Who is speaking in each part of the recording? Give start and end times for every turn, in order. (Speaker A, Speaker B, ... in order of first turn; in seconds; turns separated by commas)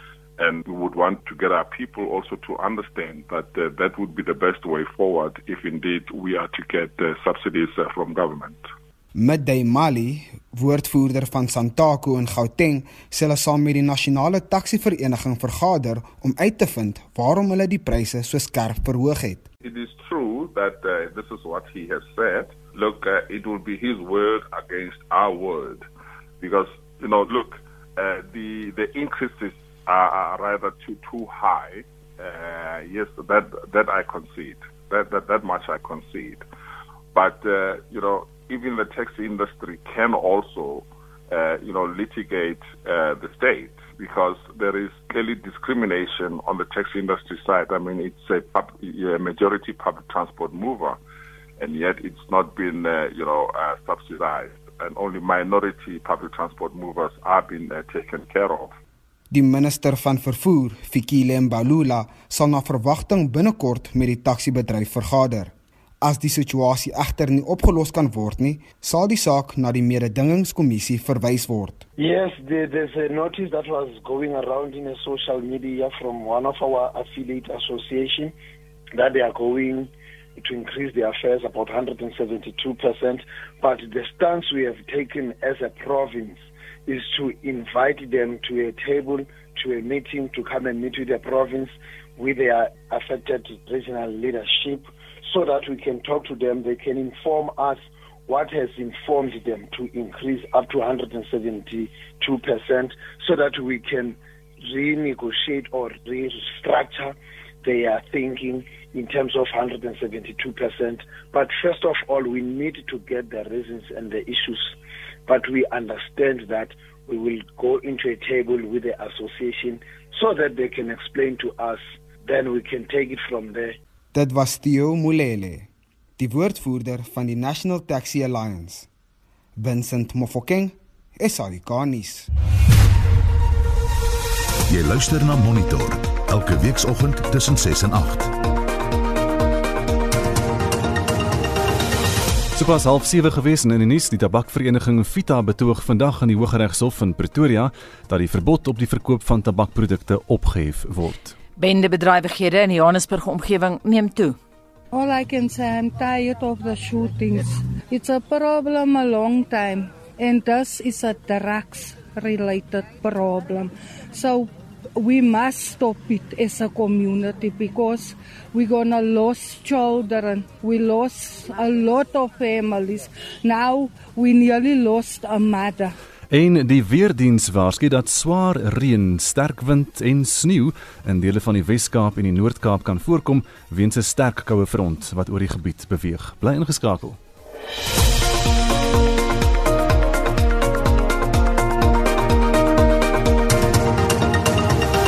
Speaker A: 0.4-8.7, Speaker B: 9.1-19.4, Speaker A: 19.6-25.9, Speaker A: 26.4-36.4, Speaker A: 37.1-51.0, Speaker A: 51.6-58.8, Speaker B: 59.3-71.8, Speaker C: 72.0-78.3, Speaker C: 79.0-123.8, Speaker B: 124.1-125.7, Speaker B: 126.2-128.9, Speaker B: 129.6-132.3, Speaker D: 134.7-138.3, Speaker E: 142.5-151.3, Speaker F: 151.6-154.4, Speaker G: 154.9-175.9, Speaker E: 176.3-187.2